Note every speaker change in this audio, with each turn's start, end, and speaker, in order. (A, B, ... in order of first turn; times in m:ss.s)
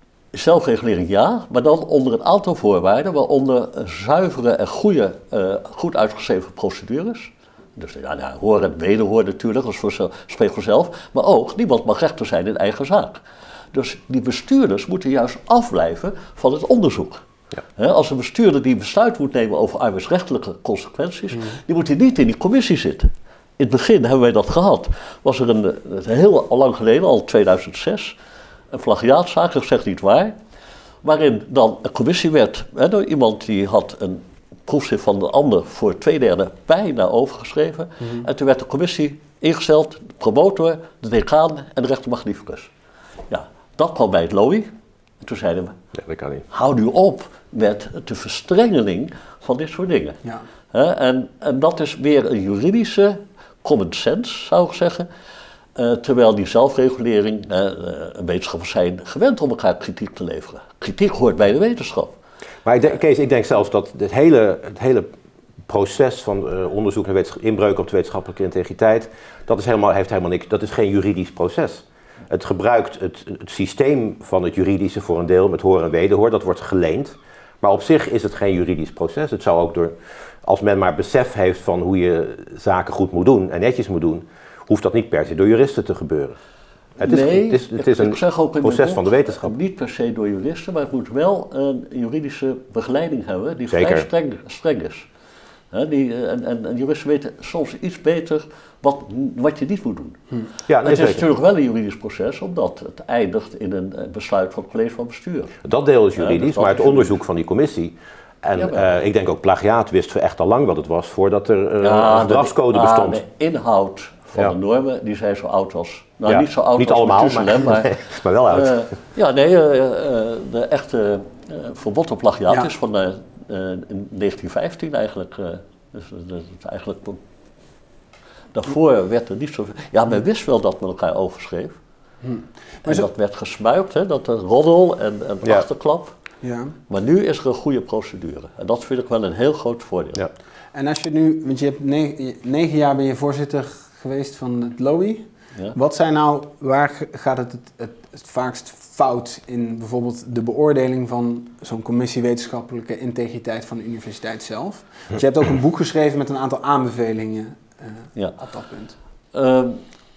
0:00.3-0:13.2 A
0:13.7-0:17.2 A
0:17.8-0:28.1 A
0:28.7-0:30.4 A
0:31.0-0:42.7 A
0:43.3-0:44.7 A
0:45.2-0:45.8 A
0:46.0-0:46.4 B
0:46.5-0:55.1 A
0:55.8-1:02.2 A
1:02.6-1:05.1 B
1:05.7-1:26.4 B
1:27.0-1:29.5 B
1:27.0-1:35.1 A
1:33.7-1:34.1 B
1:35.7-1:40.3 A
1:40.7-1:41.2 B
1:40.8-1:45.6 A
1:45.6-1:53.2 B
1:46.2-1:47.2 A
1:48.6-1:48.9 A
1:51.8-2:07.2 A
1:56.3-1:58.9 B
2:08.5-2:11.8 A
2:12.2-2:13.1 C
2:12.8-2:16.1 A
2:16.4-2:16.7 C
2:16.9-2:20.3 A
2:20.7-2:38.9 C
2:39.3-2:39.8 A